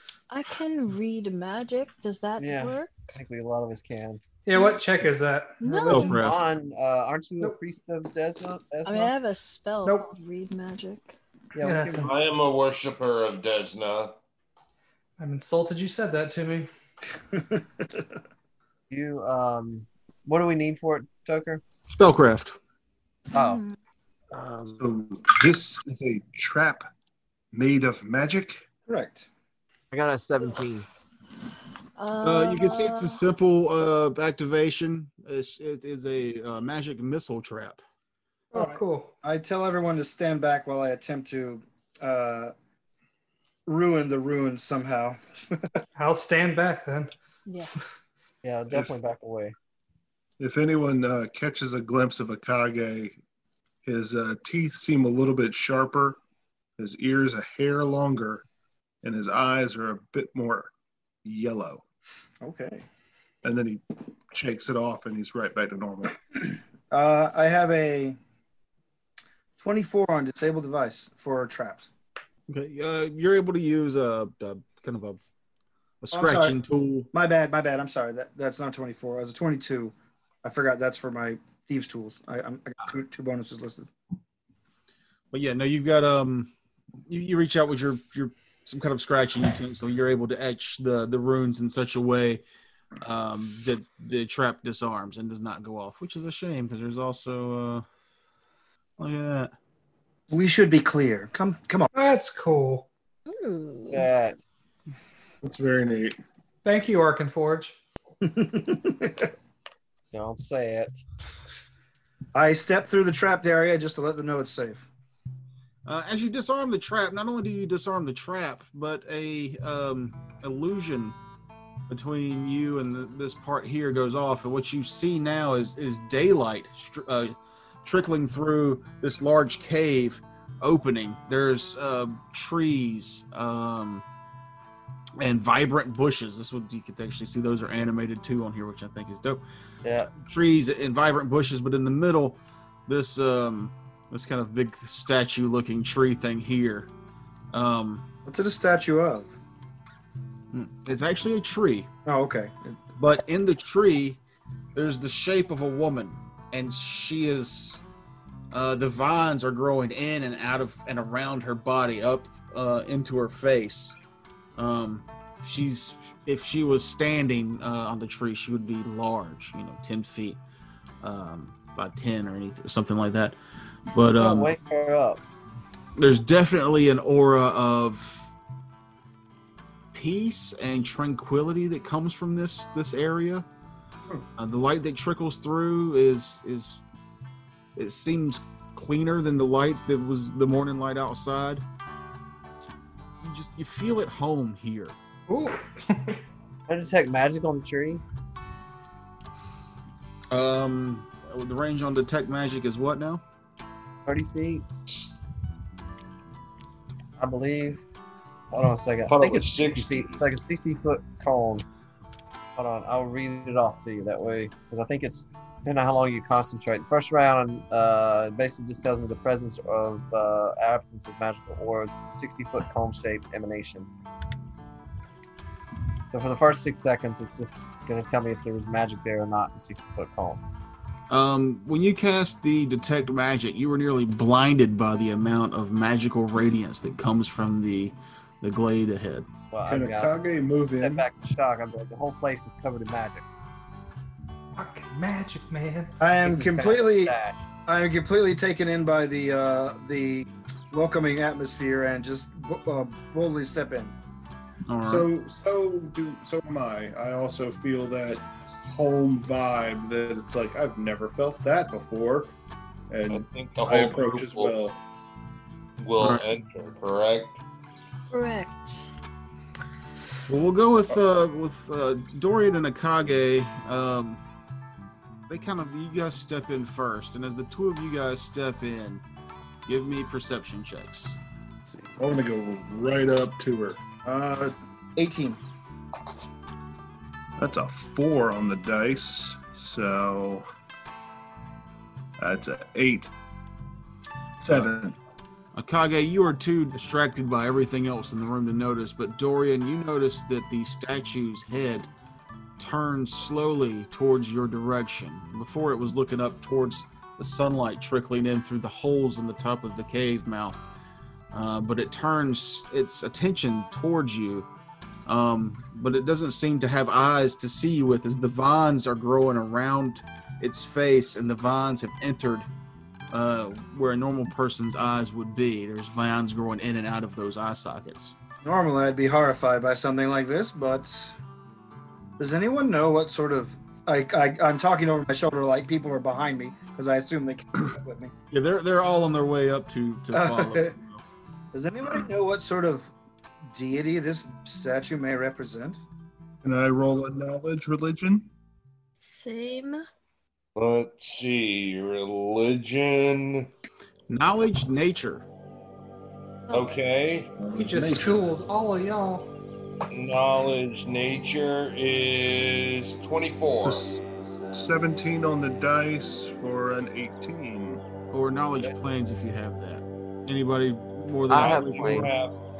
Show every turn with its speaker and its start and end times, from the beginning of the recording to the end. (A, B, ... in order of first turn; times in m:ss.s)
0:00.3-0:03.1 A
0:02.4-0:04.2 B
0:04.4-0:06.3 C
0:04.5-0:04.8 A
0:05.6-0:06.1 A
0:05.8-0:09.1 B
0:05.9-0:06.4 D
0:08.8-0:11.2 A
0:09.8-0:10.1 C
0:11.5-0:12.1 B
0:11.6-0:12.1 C
0:12.0-0:14.2 E
0:15.2-0:16.7 C
0:17.2-0:18.0 F
0:18.9-0:21.6 B
0:21.9-0:22.6 D
0:23.3-0:23.8 A
0:23.3-0:23.6 B
0:24.3-0:24.8 B
0:24.8-0:26.8 G
0:27.5-0:28.6 G
0:28.9-0:29.3 F
0:29.9-0:30.9 B
0:32.0-0:33.2 A
0:32.2-0:37.8 D
0:38.5-0:39.1 C
0:38.5-0:42.5 F
0:43.7-0:45.8 F
0:46.0-0:47.1 C
0:47.4-0:47.7 A
0:48.4-0:49.5 B
0:48.7-0:49.0 G
0:50.4-0:53.2 G
0:53.8-0:56.2 G
0:56.8-0:58.4 G
0:59.0-1:00.7 G
1:01.2-1:01.8 G
1:02.4-1:02.8 F
1:03.4-1:06.2 G
1:06.9-1:08.2 F
1:09.6-1:11.9 F
1:12.5-1:15.2 D
1:16.0-1:17.1 D
1:16.1-1:16.6 F
1:17.1-1:23.9 F
1:25.3-1:26.5 D
1:27.1-1:32.4 D
1:33.0-1:37.8 D
1:39.0-1:39.5 D
1:40.3-1:41.9 F
1:41.9-1:42.9 C
1:43.3-1:44.1 A
1:43.9-1:44.4 B
1:45.4-1:46.2 G
1:46.6-1:47.8 C
1:48.2-1:49.3 F
1:50.1-1:51.0 B
1:52.3-1:54.9 F
1:55.8-2:01.2 D
2:01.9-2:14.0 D
2:15.2-2:19.4 D
2:19.8-2:20.1 B
2:20.1-2:26.9 D
2:27.5-2:28.0 D
2:28.2-2:29.4 F
2:30.5-2:31.9 D
2:32.0-2:32.8 F
2:33.0-2:34.2 D
2:34.7-2:37.8 D
2:38.5-2:44.0 D
2:44.6-2:50.4 D
2:51.0-2:53.4 D
2:53.9-2:54.5 D
2:54.1-2:55.2 B
2:56.0-2:58.3 D
2:59.9-3:03.4 D
3:04.4-3:06.8 D
3:07.8-3:11.6 D
3:13.2-3:15.0 D
3:15.3-3:16.2 C
3:16.7-3:18.0 B
3:20.3-3:23.2 D
3:24.0-3:24.6 B
3:24.9-3:25.1 E
3:27.2-3:27.8 B
3:28.5-3:31.7 B
3:29.1-3:30.2 E
3:32.6-3:43.9 B
3:46.1-3:50.4 B
3:51.1-3:59.3 D
3:59.5-4:00.2 B
3:59.6-4:01.1 G
4:00.8-4:03.2 B
4:04.5-4:05.9 C
4:06.0-4:07.1 F
4:06.2-4:07.4 B
4:07.7-4:13.9 F
4:14.7-4:15.1 D
4:14.8-4:22.3 G
4:22.9-4:24.8 G
4:23.1-4:24.5 E
4:25.8-4:27.4 E
4:26.0-4:26.2 D
4:28.1-4:28.9 A
4:30.3-4:34.2 D
4:35.3-4:39.0 D
4:39.6-4:41.2 D
4:42.0-4:43.8 G
4:44.0-4:45.4 F
4:47.4-4:50.4 G
4:52.2-4:53.1 G
4:54.4-4:55.0 G
4:55.5-5:01.9 D
5:02.6-5:10.6 D
5:11.3-5:14.5 D
5:15.0-5:22.5 D
5:23.1-5:28.1 D
5:28.4-5:31.1 F
5:32.2-5:38.1 F
5:38.3-5:41.0 D
5:40.1-5:40.7 F
5:41.5-5:42.9 F
5:43.5-5:45.8 F
5:46.4-5:48.3 G
5:49.0-5:49.8 A
5:50.6-5:53.5 E
5:54.1-5:55.2 D
5:56.5-5:56.8 A
5:56.5-5:57.3 E
5:57.4-5:58.2 G
5:57.5-5:59.3 C
5:59.9-6:03.8 E
6:03.6-6:07.8 G
6:08.1-6:12.1 D
6:11.3-6:12.1 B
6:11.3-6:12.4 E